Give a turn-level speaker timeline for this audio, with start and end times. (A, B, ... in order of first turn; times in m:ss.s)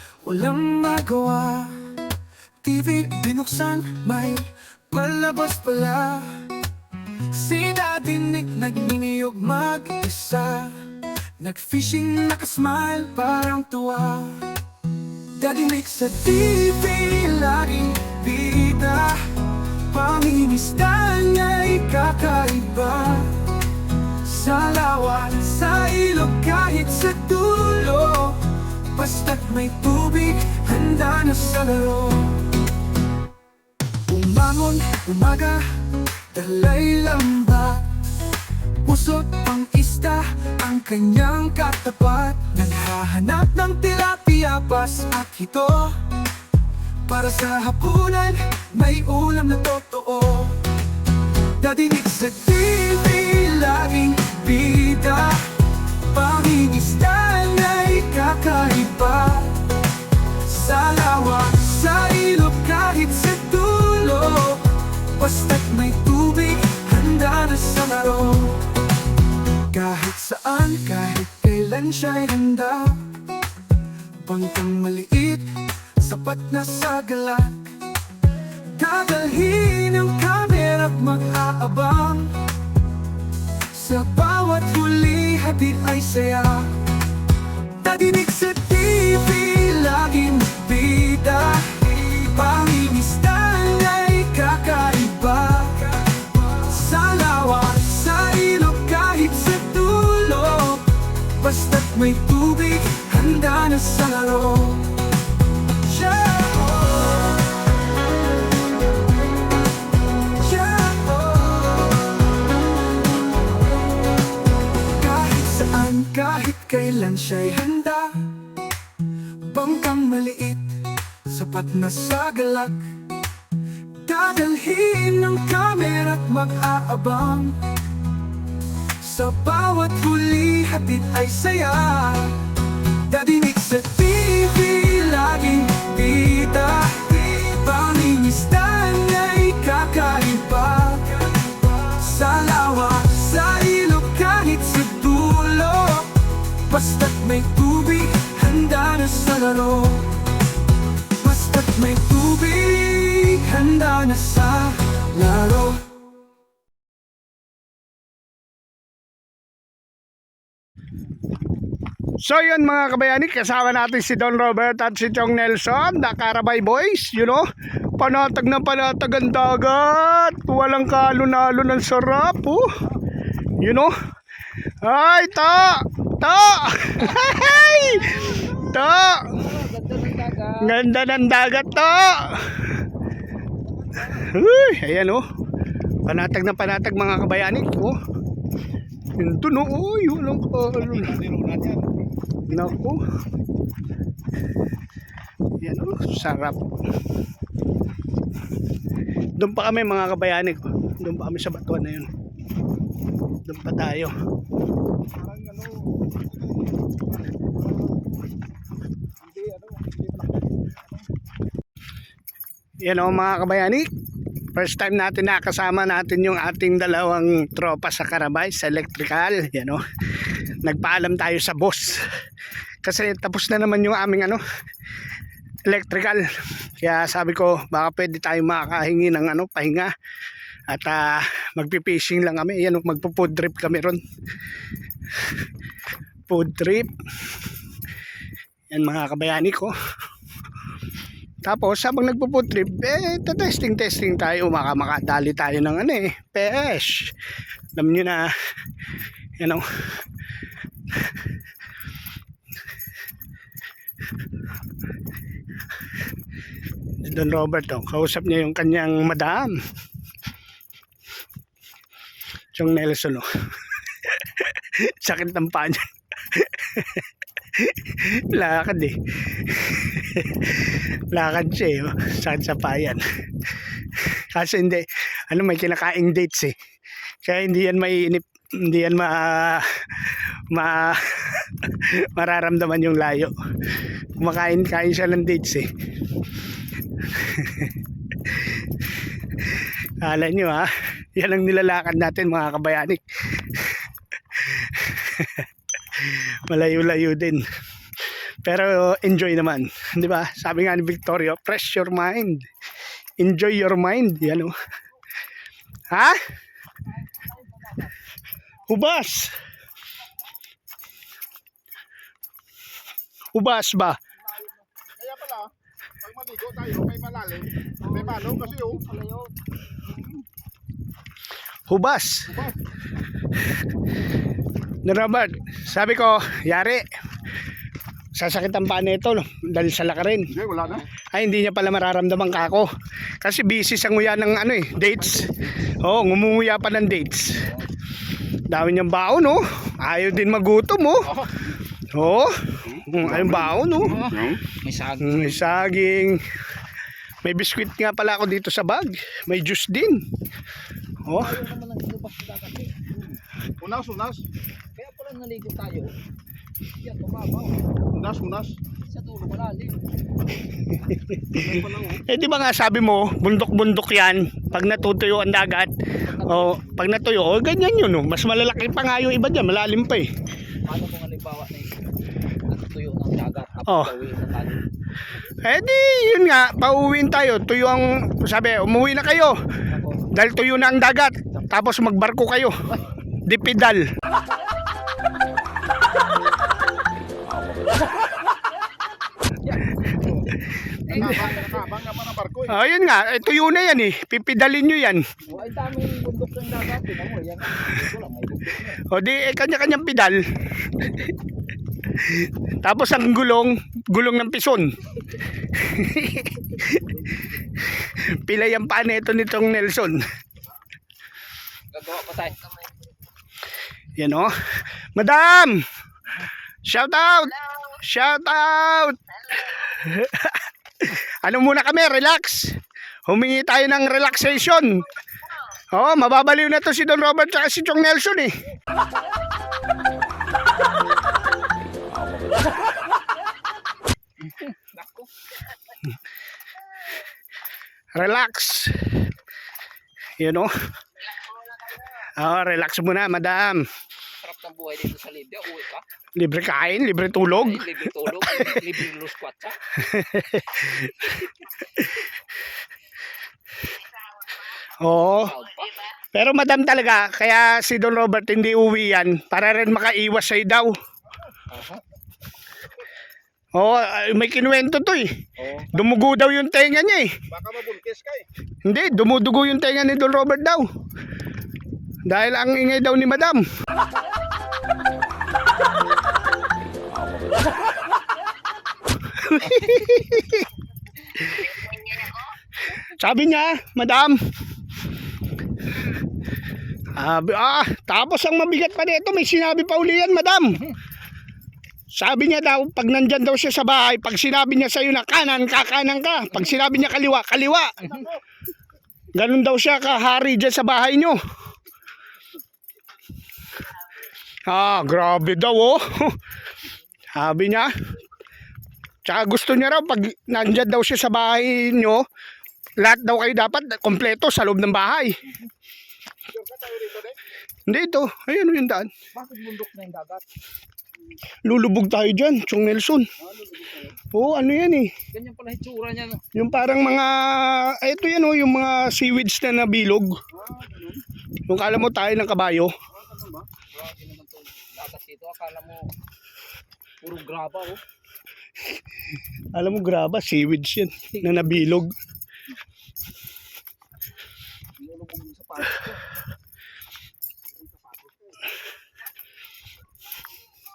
0:00.2-0:01.8 A
0:02.6-0:06.3 A
0:07.3-0:10.8 A
0:11.4-0:14.5 A
0:15.3-0:23.6 A
0:24.2-0:32.6 A
0:34.1-0:37.9 A
0:38.8-0:46.1 A
0:47.1-0:50.6 A
0:51.6-0:59.8 A
1:00.4-1:08.8 A
1:09.7-1:13.3 A
1:14.2-1:17.8 A
1:18.8-1:22.4 A
1:23.7-1:26.9 A
1:27.7-1:45.1 A
1:45.7-1:47.6 A
1:50.4-1:52.4 A
1:54.8-1:58.6 A
1:59.4-2:02.9 A
2:04.0-2:07.6 A
2:09.0-2:30.3 A
2:31.2-2:35.8 A
2:42.2-2:47.4 B
2:48.0-2:52.6 B
2:53.6-2:53.9 B
2:54.8-2:59.6 B
2:58.2-2:58.6 A
3:00.6-3:02.8 B
3:04.1-3:05.2 B
3:06.0-3:08.0 B
3:09.2-3:11.2 B
3:10.9-3:11.9 C
3:12.5-3:13.0 B
3:15.6-3:16.6 B
3:19.4-3:22.1 B
3:23.4-3:24.1 B
3:25.1-3:28.2 C
3:29.2-3:30.8 C
3:32.8-3:33.9 B
3:34.5-3:39.8 B
3:40.6-3:42.1 B
3:42.8-3:44.4 B
3:45.7-3:46.2 B
3:46.8-3:49.9 B
3:50.7-3:54.0 B
3:56.3-3:56.9 B
3:58.7-3:59.7 B
4:01.4-4:07.1 B
4:07.8-4:08.3 B
4:17.0-4:19.6 B
4:22.6-4:23.3 B
4:24.0-4:33.0 B
4:33.9-4:36.6 B
4:37.2-4:43.3 B
4:44.2-4:45.7 B
4:47.1-4:47.7 B
4:48.3-4:48.6 B
4:50.0-4:53.8 B
4:54.4-4:57.4 B
4:58.1-5:02.5 B
5:03.2-5:04.5 B
5:05.9-5:06.2 B
5:08.7-5:09.3 B
5:13.4-5:14.0 B
5:15.0-5:15.5 C
5:16.0-5:18.8 C
5:17.9-5:19.3 A
5:21.7-5:22.4 B
5:22.3-5:22.6 C
5:24.8-5:26.8 B
5:28.2-5:30.3 B
5:30.4-5:30.8 C
5:31.1-5:32.7 B
5:33.2-5:37.5 B
5:38.5-5:41.1 B
5:41.9-5:44.0 B
5:44.0-5:44.4 A
5:44.1-5:44.4 C
5:45.0-5:46.2 B
5:47.2-5:50.0 B
5:51.1-5:51.5 B
5:51.9-5:52.7 A
5:53.6-5:54.2 C
5:55.2-5:55.9 D
5:57.9-5:58.6 C
5:59.0-5:59.5 D
6:00.7-6:01.5 B
6:01.4-6:02.0 C
6:02.1-6:10.1 B
6:10.9-6:11.2 D
6:12.8-6:13.5 D
6:13.6-6:14.0 B
6:15.4-6:19.4 B
6:20.1-6:22.6 B
6:23.3-6:23.8 B
6:29.9-6:30.2 A
6:30.9-6:31.6 A
6:30.9-6:31.3 B
6:30.9-6:32.6 C
6:32.5-6:35.0 B
6:35.5-6:35.9 D
6:37.4-6:38.4 D
6:38.9-6:41.1 B
6:42.0-6:44.7 B
6:45.6-6:46.9 B
6:47.8-6:50.0 B
6:54.0-6:55.6 B
6:56.7-7:02.6 B
7:03.1-7:04.9 B
7:05.7-7:08.3 B
7:17.9-7:18.9 B
7:20.2-7:20.5 B
7:22.0-7:23.6 B
7:25.2-7:25.8 D
7:26.2-7:28.8 B
7:29.8-7:32.1 B
7:34.8-7:35.4 B
7:36.1-7:40.7 B
7:43.6-7:45.1 B
7:45.7-7:47.1 B
7:47.3-7:48.3 C
7:48.6-7:50.6 B
7:52.1-7:53.5 B
7:59.2-8:00.5 B
8:01.3-8:01.5 B
8:02.8-8:04.2 B
8:07.0-8:10.7 B
8:11.9-8:18.1 B
8:17.9-8:18.2 C
8:19.1-8:21.2 B
8:24.5-8:26.2 B
8:27.1-8:27.7 B
8:29.0-8:32.0 B
8:32.8-8:35.2 B
8:36.3-8:37.2 C
8:37.7-8:38.9 B
8:39.3-8:40.0 A
8:41.4-8:43.1 B
8:43.2-8:44.0 C
8:44.1-8:44.9 B
8:45.8-8:46.2 D
8:46.4-8:50.1 B
8:50.3-8:51.0 C
8:51.5-8:52.7 B
8:52.9-8:53.5 C
8:54.8-8:55.7 D
8:57.0-8:57.6 D
8:59.5-9:01.9 B
9:05.0-9:05.7 C
9:07.6-9:08.4 C